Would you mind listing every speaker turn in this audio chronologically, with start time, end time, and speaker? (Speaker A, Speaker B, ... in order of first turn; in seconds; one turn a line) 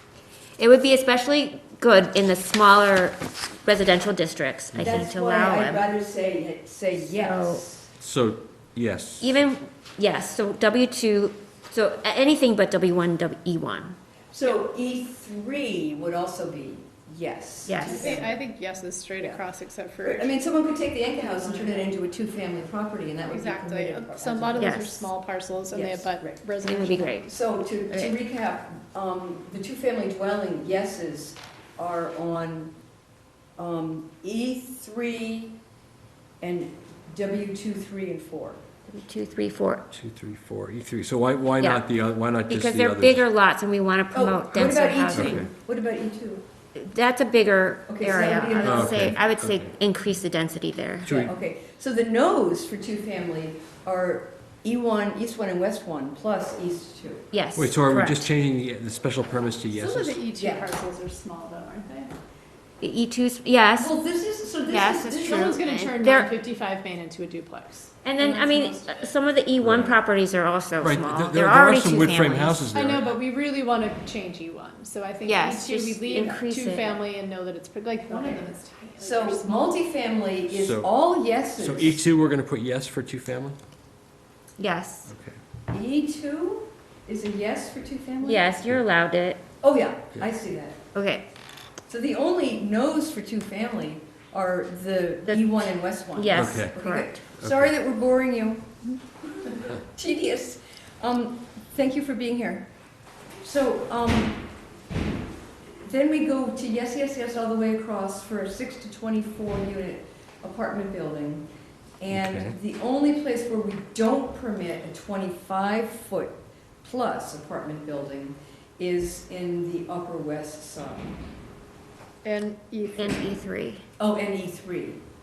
Speaker A: 0.6-5.9
Speaker B: 4.7-5.1
Speaker C: 4.8-7.9
Speaker A: 7.0-7.6
Speaker B: 8.0-9.3
Speaker A: 9.2-14.0
Speaker C: 14.3-18.4
Speaker A: 17.7-18.2
Speaker D: 17.8-20.4
Speaker C: 20.0-24.8
Speaker D: 21.2-21.9
Speaker D: 23.3-27.3
Speaker A: 24.6-25.1
Speaker C: 25.7-26.4
Speaker A: 26.6-27.3
Speaker C: 27.2-32.7
Speaker A: 27.9-28.2
Speaker C: 33.6-35.6
Speaker C: 36.4-38.6
Speaker A: 38.9-39.9
Speaker B: 39.9-43.3
Speaker A: 42.5-45.4
Speaker C: 44.1-46.4
Speaker B: 45.1-45.5
Speaker A: 46.8-51.2
Speaker C: 47.9-49.2
Speaker B: 48.6-49.7
Speaker B: 51.0-51.3
Speaker C: 51.2-57.3
Speaker A: 57.3-58.3
Speaker B: 57.6-60.2
Speaker D: 59.7-62.1
Speaker C: 60.4-60.8
Speaker A: 62.8-63.9
Speaker C: 63.8-65.5
Speaker A: 64.7-66.3
Speaker D: 65.1-69.1
Speaker A: 68.0-72.6
Speaker B: 69.6-70.0
Speaker B: 70.8-73.2
Speaker D: 72.7-79.8
Speaker A: 75.3-77.0
Speaker A: 78.1-78.4
Speaker C: 79.0-82.1
Speaker B: 80.5-80.9
Speaker B: 81.6-83.6
Speaker A: 84.6-85.1
Speaker B: 85.1-85.4
Speaker C: 85.7-88.5
Speaker A: 88.2-89.4
Speaker C: 89.6-90.8
Speaker A: 90.9-91.3
Speaker C: 91.9-102.7
Speaker A: 95.3-97.2
Speaker B: 96.3-96.7
Speaker B: 97.4-97.7
Speaker C: 103.4-104.4
Speaker C: 105.8-111.5
Speaker C: 112.0-121.2
Speaker B: 112.1-112.5
Speaker D: 122.2-123.3
Speaker A: 123.0-123.8
Speaker C: 124.0-125.0